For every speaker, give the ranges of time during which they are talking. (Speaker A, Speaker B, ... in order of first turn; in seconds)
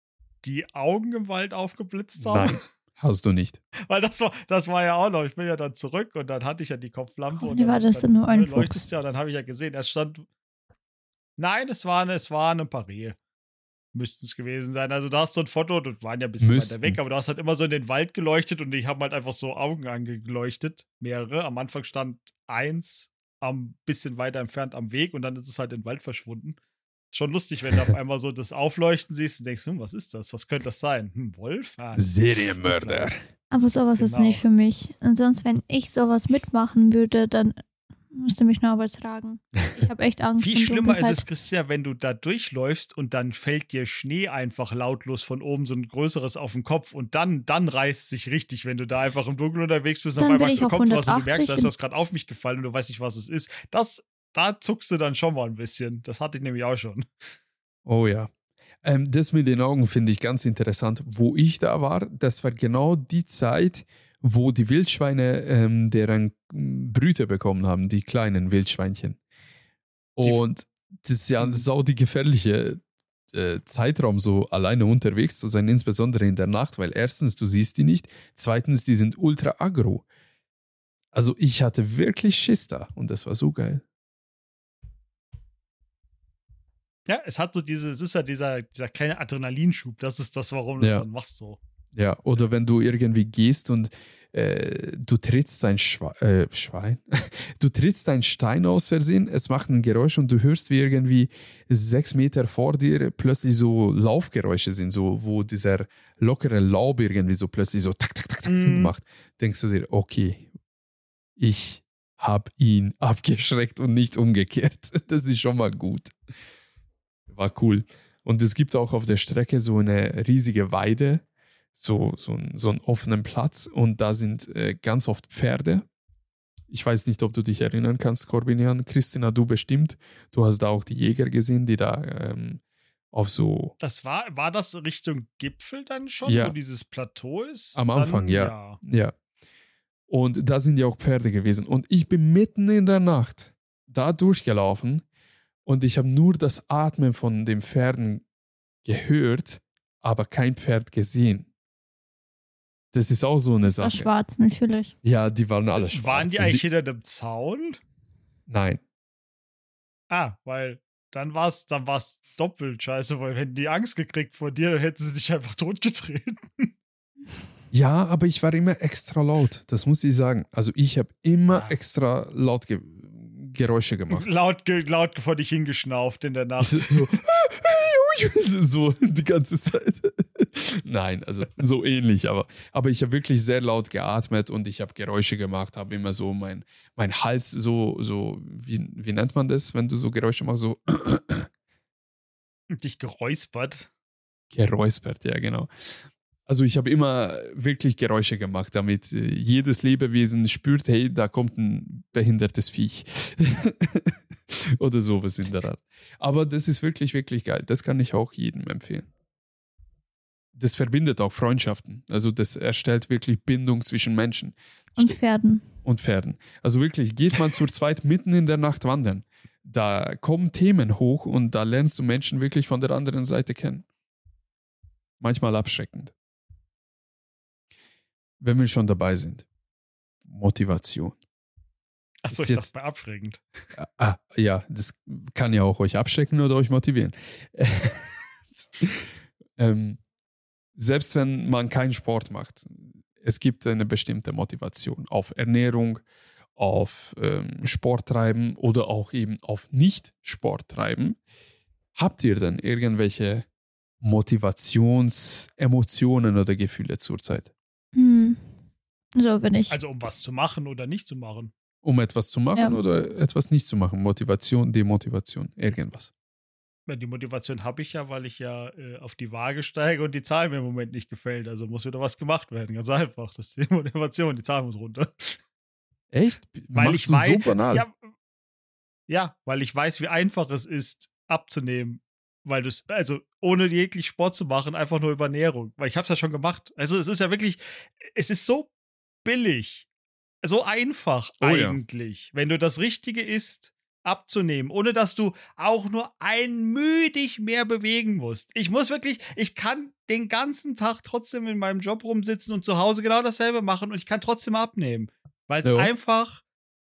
Speaker A: 0.4-2.6, 3.8-10.3, 11.4-13.2, 13.9-26.6, 27.1-33.1, 34.0-34.4, 40.4-57.0, 71.4-71.7, 87.1-91.6, 108.5-108.9, 133.8-138.8, 155.9-157.8, 160.1-166.7, 174.1-177.1, 192.7-193.9, 232.2-233.4, 259.7-261.5, 266.9-275.4, 276.7-277.9, 279.1-288.7, 289.2-289.9, 290.4-306.4
Speaker B: 2.2-3.6, 16.4-17.0, 31.9-33.2, 57.9-58.3, 58.8-69.2, 70.2-80.0, 81.1-83.8, 90.8-91.0, 91.9-110.5, 111.4-116.1, 117.3-121.2, 121.7-125.8, 126.7-132.6, 133.1-133.7, 136.2-136.5, 137.7-139.1, 140.1-145.0, 145.7-148.2, 148.8-151.5, 152.9-154.1, 155.0-156.6, 158.5-158.8, 167.7-174.3, 176.6-191.5, 194.5-195.7, 196.5-209.1, 210.5-215.2, 215.8-223.8, 225.2-226.1, 228.4-229.4, 230.2-231.2, 232.3-232.7, 233.8-240.0, 240.8-246.0, 246.6-251.2, 251.9-253.5, 254.0-257.5, 261.8-266.1, 276.1-277.8, 291.4-291.8, 305.6-305.9
Speaker C: 7.3-8.8, 33.5-37.5, 38.1-41.2, 50.2-51.7, 153.6-154.9, 214.9-215.6, 257.9-258.4, 259.1-259.8